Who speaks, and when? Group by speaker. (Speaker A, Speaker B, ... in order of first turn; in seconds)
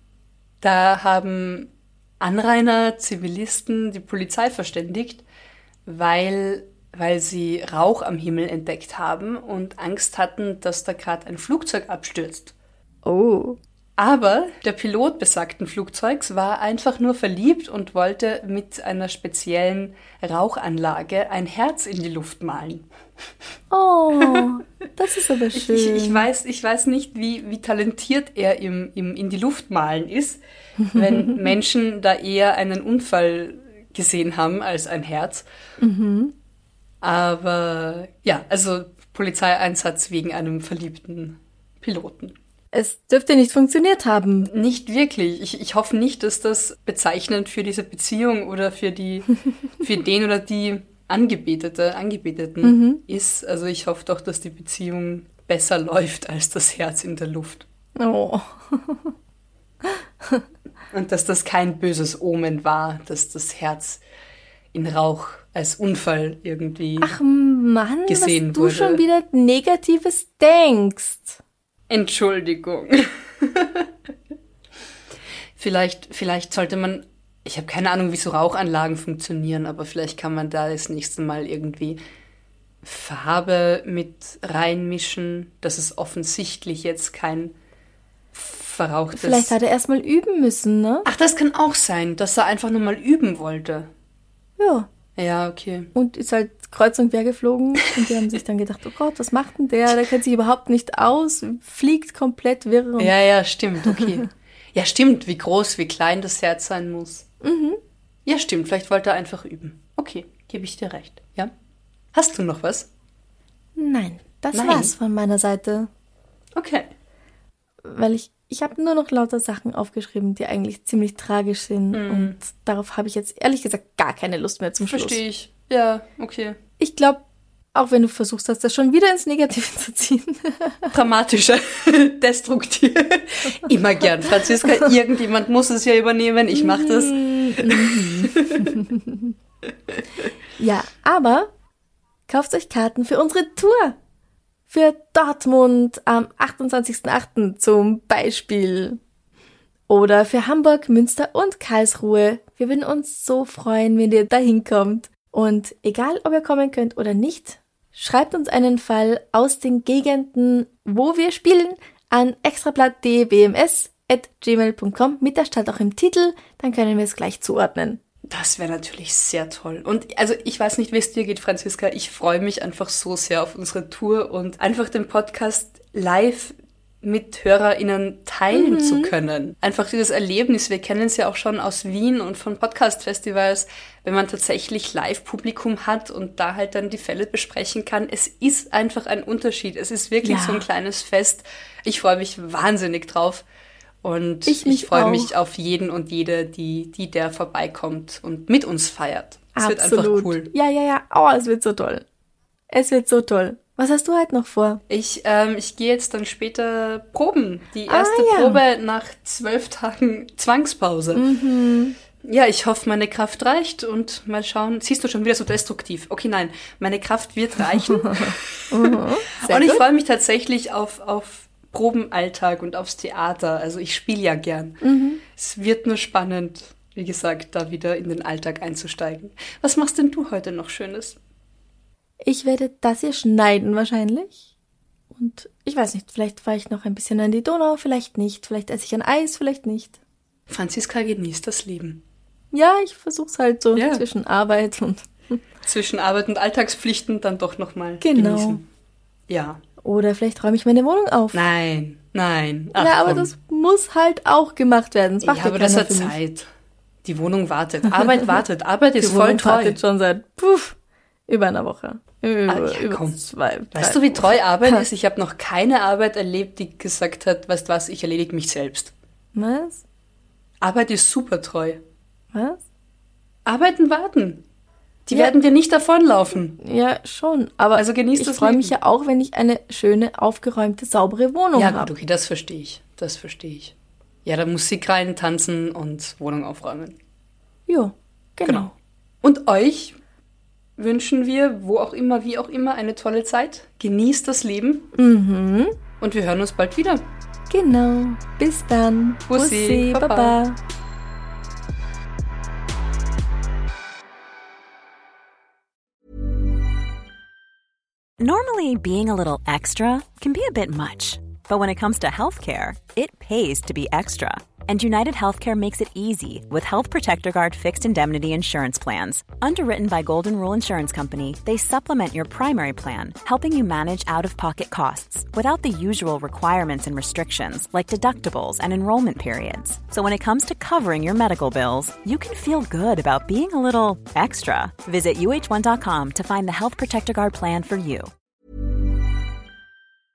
Speaker A: 0.6-1.7, 2.2-5.2, 5.9-12.5, 14.0-22.9, 24.2-24.5, 25.5-30.4, 30.9-35.5, 37.0-42.4, 44.5-57.7, 60.9-64.0, 64.7-67.2, 68.1-69.0, 71.9-73.9, 75.6-82.0, 82.8-87.5, 88.3-89.5, 91.1-93.9, 95.2-95.9, 103.0-107.3, 108.3-111.5, 112.1-112.9, 114.5-114.9, 116.6-116.9, 121.9-122.4, 124.8-126.6, 130.9-138.8, 139.9-140.3, 168.3-193.4, 194.0-200.5, 204.9-211.2, 212.2-231.2, 240.5-242.0, 243.8-244.1, 245.6-248.7, 249.3-249.6, 251.3-253.3, 255.2-256.5, 257.1-259.8, 262.5-263.2, 263.7-268.9, 270.6-271.8, 273.5-274.4, 275.1-276.6, 277.8-278.8, 281.6-283.7, 284.2-287.0, 288.4-288.7, 289.2-290.0, 290.8-294.9, 296.0-297.1, 299.3-300.4
Speaker B: 13.1-13.6, 23.7-26.3, 30.9-31.3, 35.8-36.3, 42.7-44.5, 52.6-53.0, 58.0-59.1, 59.8-60.5, 67.0-71.4, 89.2-91.1, 94.6-94.9, 96.0-103.1, 103.9-104.2, 107.4-107.8, 113.8-115.9, 117.8-125.2, 126.8-127.2, 127.8-130.9, 136.5-139.3, 140.6-141.5, 142.3-144.0, 144.7-149.0, 149.9-168.0, 178.5-179.1, 190.2-190.7, 194.5-195.3, 199.6-202.1, 202.7-204.8, 207.9-208.6, 211.2-212.0, 217.9-219.8, 224.8-225.2, 232.2-234.4, 235.1-240.0, 242.5-245.4, 248.0-248.6, 249.8-251.4, 252.8-256.2, 259.0-260.8, 261.3-264.9, 269.4-269.8, 272.3-272.6, 276.6-281.9, 287.7-288.7, 294.9-295.8, 297.5-300.6
Speaker C: 308.2-338.1